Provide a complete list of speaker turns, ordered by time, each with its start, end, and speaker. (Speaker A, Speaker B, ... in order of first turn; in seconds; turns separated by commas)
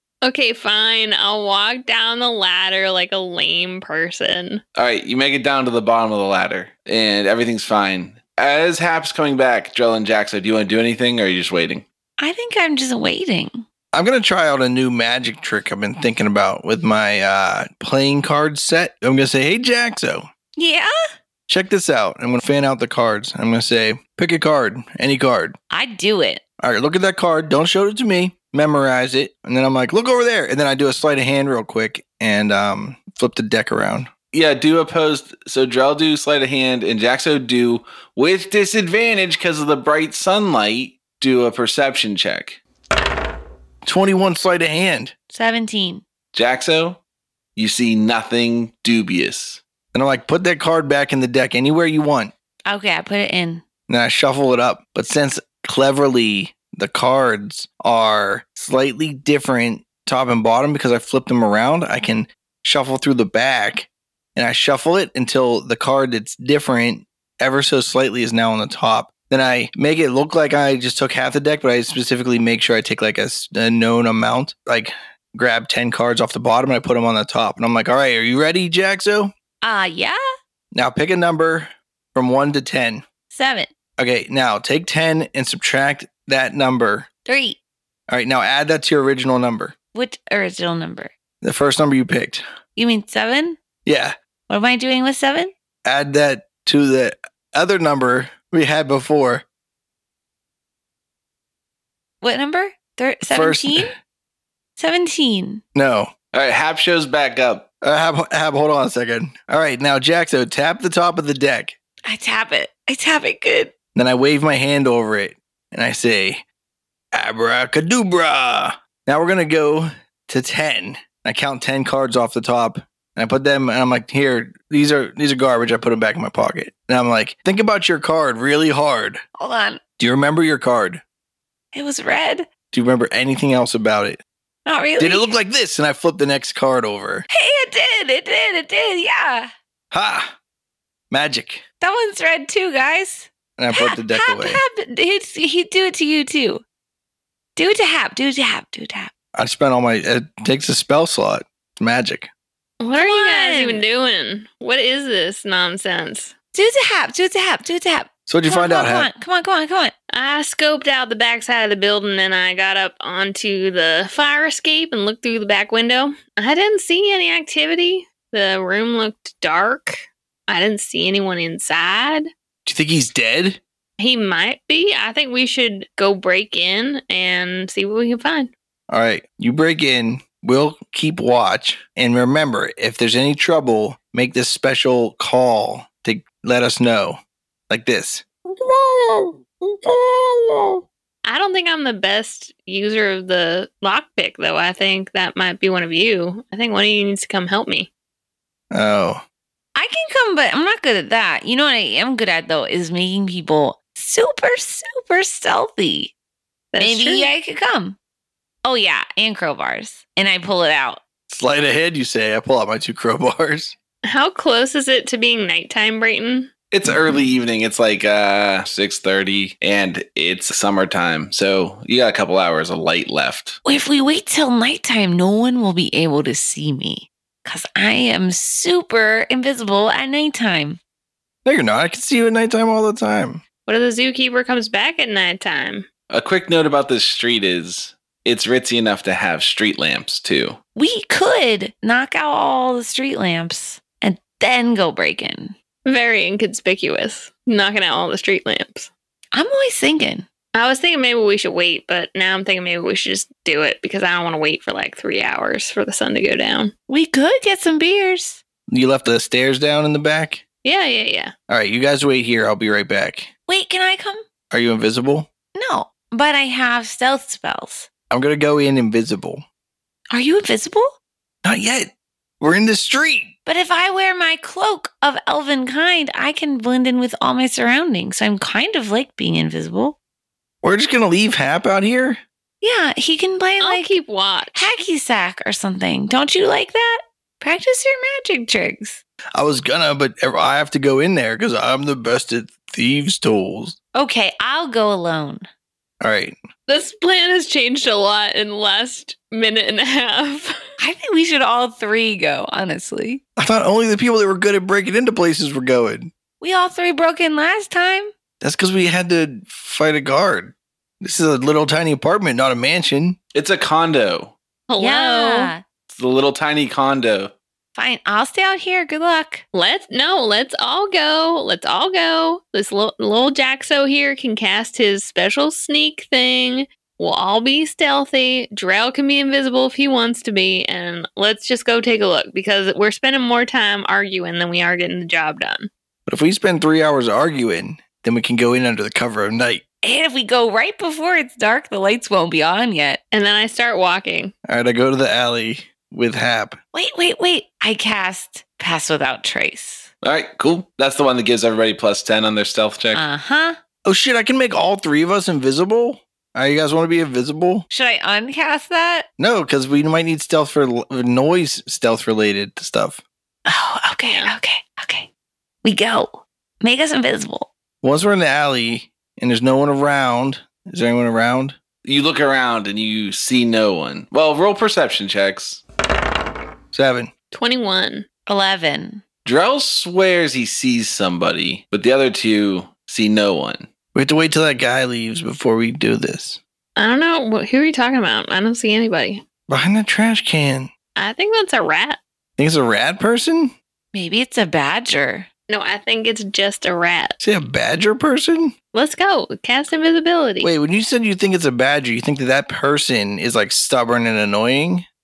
Speaker A: 0.2-4.6, Speaker B: 4.8-11.8, Speaker C: 12.2-13.6, Speaker D: 13.9-20.3, Speaker C: 20.6-20.9, Speaker D: 21.5-25.6, Speaker C: 25.7-26.4, Speaker D: 26.6-34.1, Speaker B: 34.3-42.6, Speaker D: 43.8-45.1, Speaker C: 45.3-46.0, Speaker B: 46.3-47.0, Speaker B: 47.6-49.6, Speaker D: 49.9-52.3, Speaker C: 52.7-53.6, Speaker D: 53.9-79.3, Speaker C: 79.6-80.2, Speaker D: 80.7-83.0, Speaker C: 83.3-83.7, Speaker D: 84.0-87.1, Speaker C: 87.3-87.6, Speaker D: 88.1-89.8, Speaker C: 90.0-91.1, Speaker D: 91.4-92.4, Speaker C: 92.8-93.6, Speaker D: 93.8-94.1, Speaker C: 94.5-95.5, Speaker D: 95.8-99.5, Speaker C: 102.2-103.9, Speaker D: 103.3-103.9, Speaker C: 104.8-105.6, Speaker D: 105.8-106.1, Speaker B: 106.3-107.7, Speaker D: 107.8-111.8, Speaker C: 112.1-113.7, Speaker D: 113.9-116.4, Speaker D: 117.1-129.2, Speaker C: 129.4-129.8, Speaker D: 130.0-131.0, Speaker C: 131.7-132.5, Speaker D: 132.7-134.2, Speaker C: 134.7-135.3, Speaker D: 135.0-137.3, Speaker C: 137.3-139.5, Speaker D: 139.9-140.3, Speaker D: 141.1-141.6, Speaker C: 141.8-146.6, Speaker D: 143.6-144.6, Speaker C: 147.6-149.1, Speaker D: 149.3-152.3, Speaker A: 152.8-156.3, Speaker C: 152.9-153.8, Speaker C: 156.5-159.9, Speaker D: 158.3-159.1, Speaker A: 160.1-172.3, Speaker D: 172.6-173.6, Speaker A: 174.0-178.5, Speaker D: 178.9-190.8, Speaker A: 191.2-197.9, Speaker D: 198.7-199.2, Speaker C: 199.8-206.1, Speaker A: 206.7-207.3, Speaker C: 206.8-208.0, Speaker C: 208.6-211.0, Speaker D: 211.3-213.8, Speaker A: 214.1-216.5, Speaker B: 216.7-223.6, Speaker C: 223.6-230.8, Speaker D: 231.4-233.4, Speaker A: 233.7-235.9, Speaker B: 236.1-240.6, Speaker C: 240.7-245.6, Speaker A: 245.8-248.9, Speaker C: 249.3-250.3, Speaker A: 250.6-256.7, Speaker C: 256.9-258.4, Speaker D: 258.7-260.4, Speaker A: 260.6-261.3, Speaker D: 261.5-263.3, Speaker C: 263.5-264.2, Speaker D: 264.5-265.3, Speaker C: 265.6-267.9, Speaker D: 268.1-269.4, Speaker C: 270.1-270.9, Speaker D: 271.4-273.3, Speaker C: 273.4-279.9, Speaker D: 280.6-282.2, Speaker C: 282.6-283.9, Speaker A: 283.6-284.7, Speaker C: 284.6-289.0, Speaker D: 289.4-293.8, Speaker C: 293.9-295.4, Speaker D: 296.0-296.4, Speaker A: 296.7-300.5, Speaker C: 300.8-303.2, Speaker D: 303.4-306.1, Speaker C: 306.4-308.1, Speaker D: 308.4-313.2, Speaker B: 313.3-314.3, Speaker A: 314.7-315.5, Speaker C: 314.8-315.6, Speaker B: 315.9-317.3, Speaker C: 317.7-319.4, Speaker A: 319.5-335.7, Speaker D: 336.1-339.6, Speaker C: 339.8-343.0, Speaker A: 343.1-344.3, Speaker D: 344.5-346.6, Speaker C: 346.7-349.9, Speaker B: 350.0-353.1, Speaker C: 352.9-353.6, Speaker D: 353.9-357.7, Speaker C: 357.7-359.1, Speaker D: 359.2-363.0, Speaker C: 363.4-365.1, Speaker A: 364.1-364.3, Speaker C: 365.6-367.5, Speaker D: 367.8-371.6, Speaker B: 371.8-375.6, Speaker D: 376.7-377.1, Speaker A: 377.3-378.1, Speaker C: 378.3-379.0, Speaker B: 379.2-383.7, Speaker D: 383.9-386.4, Speaker A: 386.8-389.2, Speaker D: 389.5-390.7, Speaker A: 390.9-392.0, Speaker D: 392.4-393.5, Speaker C: 393.9-395.3, Speaker A: 395.5-397.2, Speaker D: 397.2-398.6, Speaker A: 398.7-400.5, Speaker D: 400.4-404.9